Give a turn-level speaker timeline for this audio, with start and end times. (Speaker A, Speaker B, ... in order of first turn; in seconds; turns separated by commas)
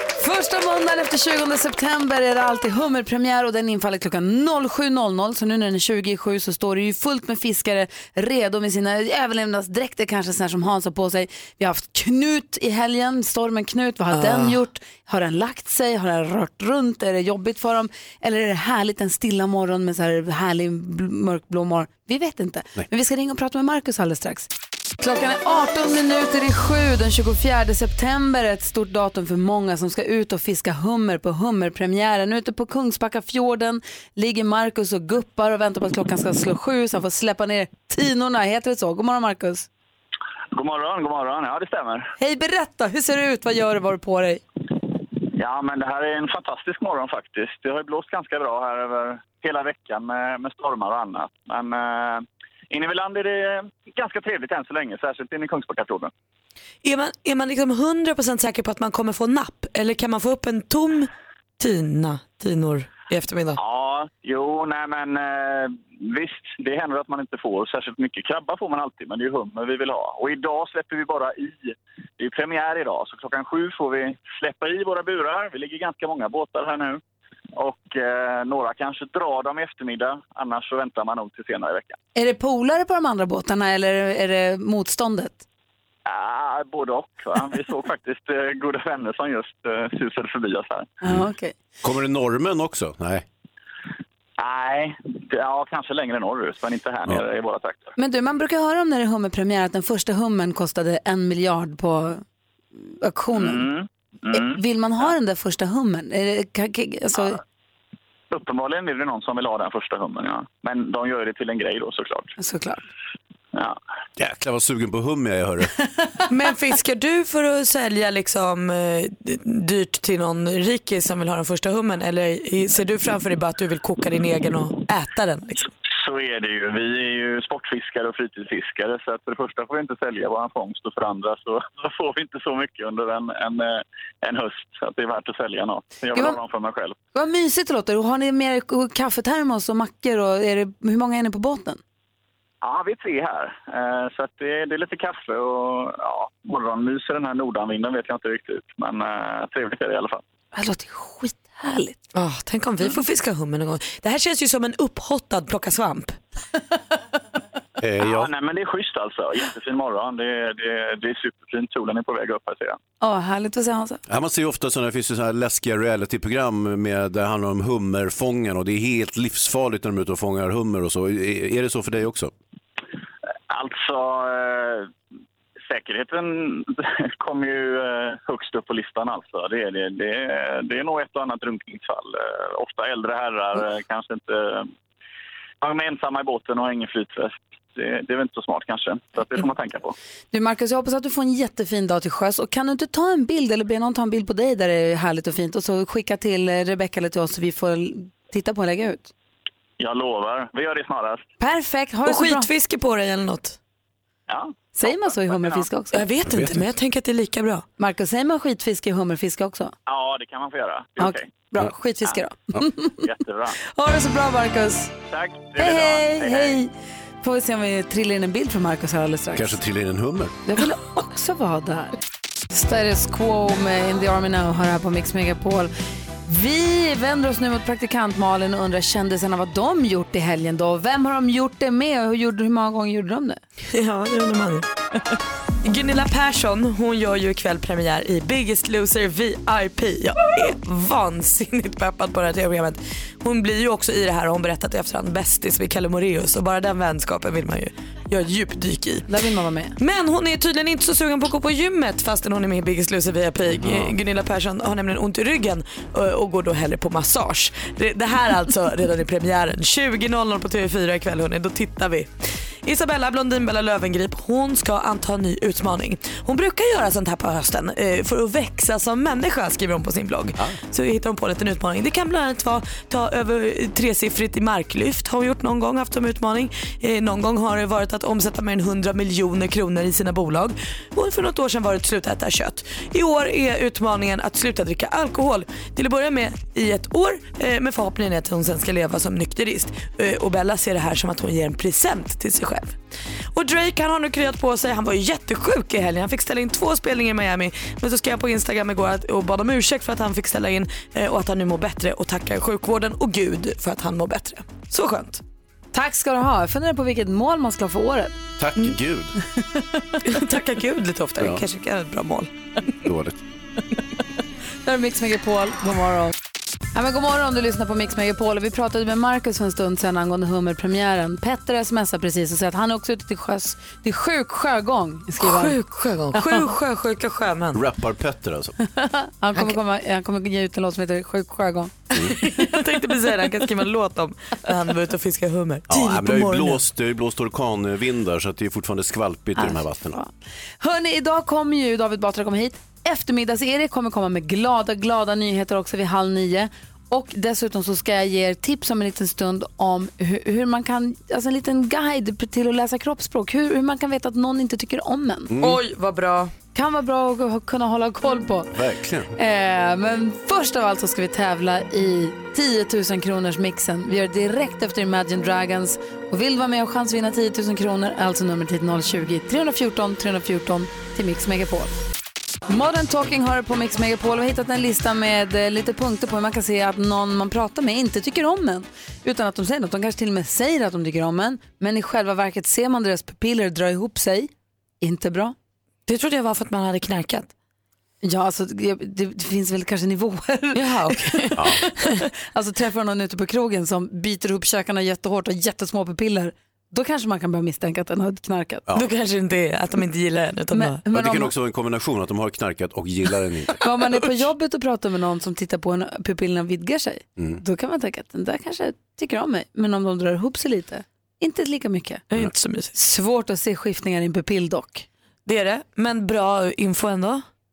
Speaker A: 0.2-39.7, Speaker B: 14.1-14.6, Speaker C: 40.5-42.1, Speaker A: 42.2-44.4, Speaker C: 45.3-56.1, Speaker B: 56.8-63.6, Speaker C: 63.6-77.0, Speaker C: 77.6-82.0, Speaker A: 82.2-85.4, Speaker C: 86.0-90.9, Speaker A: 91.0-91.5, Speaker D: 91.8-93.2, Speaker C: 94.4-97.9, Speaker A: 98.0-102.2, Speaker A: 102.7-103.7, Speaker C: 103.3-105.0, Speaker A: 104.3-107.4, Speaker C: 108.3-112.3, Speaker A: 112.4-112.8, Speaker D: 114.2-115.7, Speaker B: 116.3-125.7, Speaker C: 125.9-136.9, Speaker A: 137.1-141.8, Speaker C: 142.6-150.2, Speaker A: 150.5-152.0, Speaker B: 152.1-156.2, Speaker D: 157.8-158.3, Speaker C: 158.0-162.8, Speaker A: 163.0-164.0, Speaker D: 164.1-172.3, Speaker C: 173.5-174.9, Speaker C: 175.7-184.7, Speaker C: 185.6-189.9, Speaker A: 190.3-199.1, Speaker C: 199.8-201.2, Speaker A: 201.4-202.5, Speaker B: 202.1-203.6, Speaker C: 204.3-205.7, Speaker A: 204.7-206.0, Speaker B: 205.9-207.6, Speaker D: 206.3-206.7, Speaker A: 207.8-209.7, Speaker C: 209.9-211.3, Speaker A: 211.0-213.0, Speaker C: 213.0-213.6, Speaker A: 213.6-214.9, Speaker C: 215.1-216.6, Speaker A: 215.6-216.7, Speaker A: 217.2-219.6, Speaker D: 219.3-220.4, Speaker A: 220.4-221.9, Speaker A: 222.5-225.7, Speaker A: 226.2-233.4, Speaker B: 233.7-234.7, Speaker B: 235.6-249.1, Speaker A: 249.1-249.8, Speaker B: 249.8-262.1, Speaker D: 253.5-253.9, Speaker B: 262.6-292.8, Speaker B: 293.3-305.2, Speaker A: 305.7-308.2, Speaker D: 308.4-309.1, Speaker A: 309.4-310.0, Speaker B: 310.0-312.3, Speaker D: 312.8-313.2, Speaker A: 314.6-316.1, Speaker A: 316.7-325.6, Speaker B: 325.2-327.6, Speaker A: 326.1-326.4, Speaker D: 327.5-328.6, Speaker A: 328.6-331.7, Speaker D: 331.9-332.2, Speaker B: 331.9-336.6, Speaker D: 335.7-340.0, Speaker A: 339.4-355.3, Speaker D: 355.3-355.6, Speaker B: 355.4-356.3, Speaker A: 356.5-358.5, Speaker D: 358.5-359.1, Speaker A: 359.1-371.8, Speaker A: 372.5-384.3, Speaker A: 384.8-385.3, Speaker B: 385.9-387.3, Speaker A: 388.0-398.6, Speaker B: 390.5-391.9, Speaker D: 391.4-391.6, Speaker B: 398.7-400.8, Speaker A: 400.5-401.3, Speaker D: 400.9-403.6, Speaker A: 403.6-412.0, Speaker B: 412.1-412.7, Speaker A: 412.7-414.9, Speaker B: 415.2-417.2